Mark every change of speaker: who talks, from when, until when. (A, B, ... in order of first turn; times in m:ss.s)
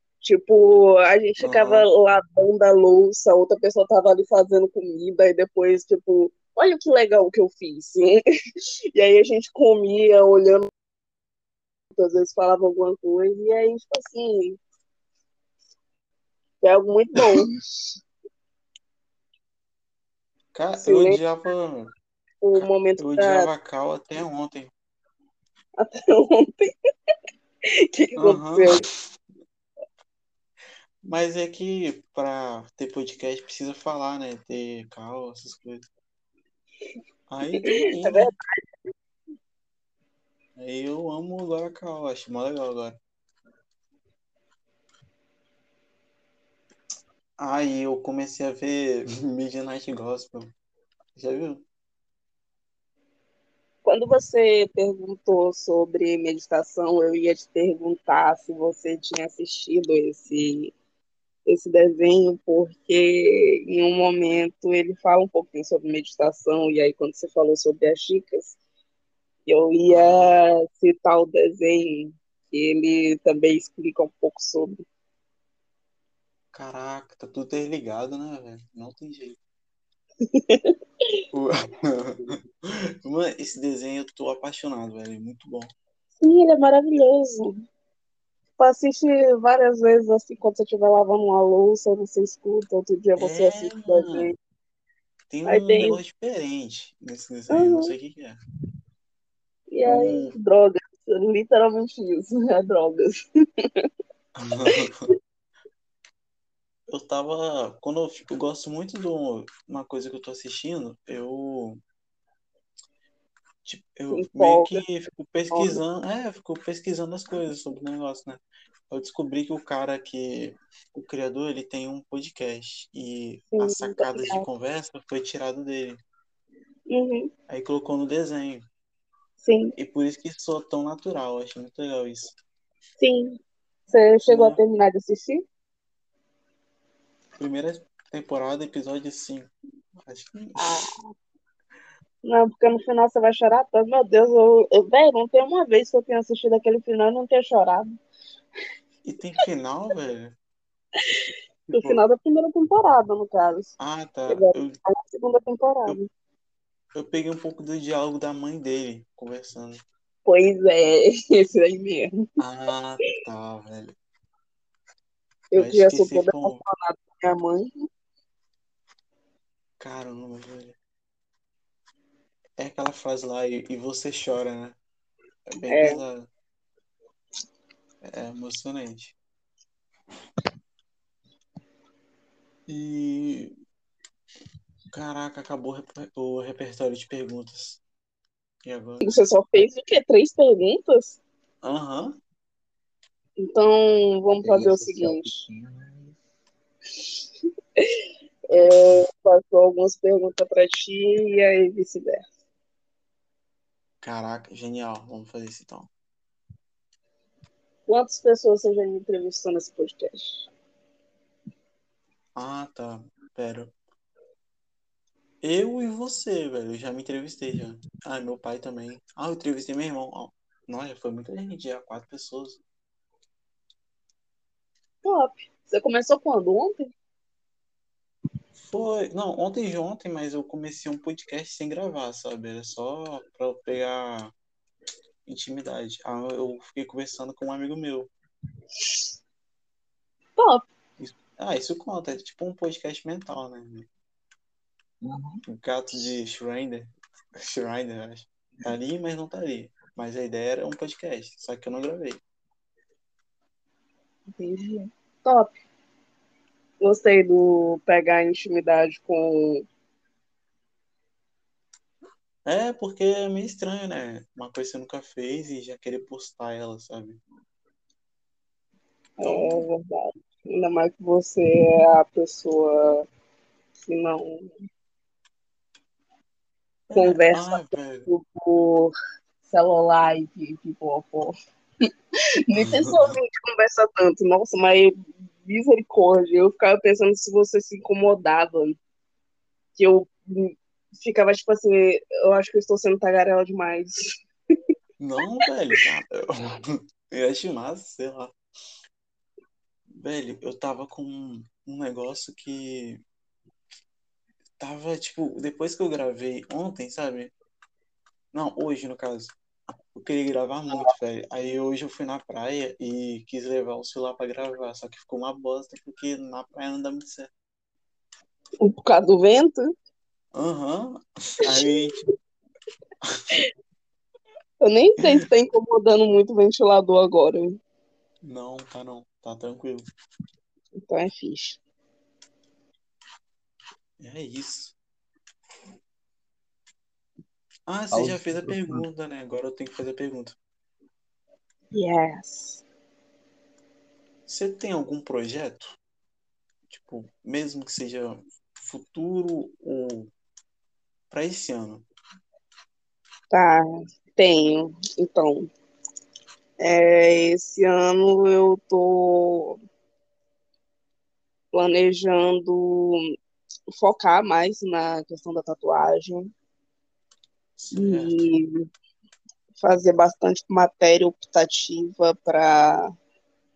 0:00.2-0:08.2 A
0:01.4-0:01.9 B
0:08.9-0:10.7 A
0:12.0-0:14.6 A
0:16.6-0:17.5 A
0:20.5-0:21.9 B
0:20.8-0:21.2 A
0:22.4-0:23.5 A
0:22.6-0:24.7 B
0:25.8-0:26.7 A
0:27.8-0:28.8 A
0:28.2-0:28.9 B
0:31.0-0:35.8 B
0:37.3-0:38.3 B
0:37.5-0:38.6 A
0:40.6-0:43.0 B
0:47.4-0:50.5 B
0:51.2-0:51.6 B
0:53.8-1:00.7 A
1:01.4-1:08.6 A
1:09.5-1:14.8 A
1:09.9-1:10.4 B
1:16.5-1:19.4 B
1:20.2-1:20.7 A
1:21.3-1:25.7 B
1:26.2-1:27.6 A
1:28.6-1:34.3 A
1:33.2-1:34.3 B
1:35.3-1:38.4 B
1:35.5-1:36.0 A
1:37.5-1:37.9 A
1:39.7-1:43.8 A
1:39.8-1:40.3 B
1:44.4-1:45.1 B
1:46.9-1:51.8 B
1:53.6-2:06.0 B
1:54.1-1:54.8 A
1:55.5-1:55.8 A
2:03.5-2:04.4 A
2:06.9-2:07.3 A
2:07.5-2:08.6 B
2:09.4-2:09.7 A
2:09.8-2:12.4 B
2:13.0-2:13.4 A
2:13.9-2:15.4 A
2:14.2-2:14.6 B
2:17.4-2:20.9 B
2:20.6-2:21.1 A
2:22.2-2:28.0 A
2:29.0-2:30.3 B
2:31.0-2:33.7 A
2:31.7-2:32.0 B
2:33.8-2:34.8 B
2:34.3-2:36.1 A
2:36.9-2:39.8 B
2:40.2-2:42.2 A
2:42.4-2:43.9 B
2:45.5-2:47.7 A
2:45.5-2:46.6 B
2:49.8-2:50.8 B
2:52.6-2:54.8 B
2:55.5-2:56.3 B
2:55.7-2:56.0 A
2:58.0-2:59.1 B
3:02.7-3:03.6 B
3:04.9-3:07.8 B
3:08.6-3:09.2 B
3:09.0-3:11.2 A
3:11.6-3:12.2 B
3:13.4-3:15.3 A
3:14.3-3:16.2 C
3:18.5-3:22.2 A
3:24.0-3:25.9 B
3:27.9-3:30.5 A
3:32.4-3:33.7 B
3:35.4-3:42.6 B
3:45.0-3:46.9 A
3:48.6-3:54.3 B
3:55.2-3:58.1 B
4:00.4-4:00.6 A
4:01.0-4:03.9 B
4:05.0-4:05.4 C
4:05.5-4:12.2 B
4:14.3-4:15.6 A
4:16.8-4:19.6 A
4:22.4-4:27.2 B
4:29.2-4:33.1 A
4:29.2-4:29.6 B
4:33.8-4:34.5 A
4:36.9-4:38.1 B
4:37.0-4:38.9 A
4:39.5-4:41.3 A
4:42.5-4:48.8 A
4:42.5-4:43.2 B
4:49.8-4:54.1 A
4:55.0-4:58.3 B
4:59.9-5:03.0 B
5:04.6-5:07.3 B
5:08.3-5:09.4 B
5:09.9-5:17.3 B
5:18.6-5:19.6 A
5:20.3-5:22.1 B
5:23.0-5:23.4 B
5:24.6-5:27.6 A
5:28.2-5:29.8 B
5:30.8-5:31.6 A
5:34.0-5:34.7 B
5:37.7-5:40.4 B
5:37.9-5:38.8 C
5:41.7-5:42.6 A
5:44.3-5:45.8 B
5:46.7-5:50.1 B
5:51.1-5:51.8 B
5:53.3-5:55.5 A
5:56.6-5:59.6 A
6:01.5-6:03.0 A
6:03.7-6:06.3 A
6:07.6-6:08.3 B
6:07.7-6:08.6 A
6:09.6-6:12.9 A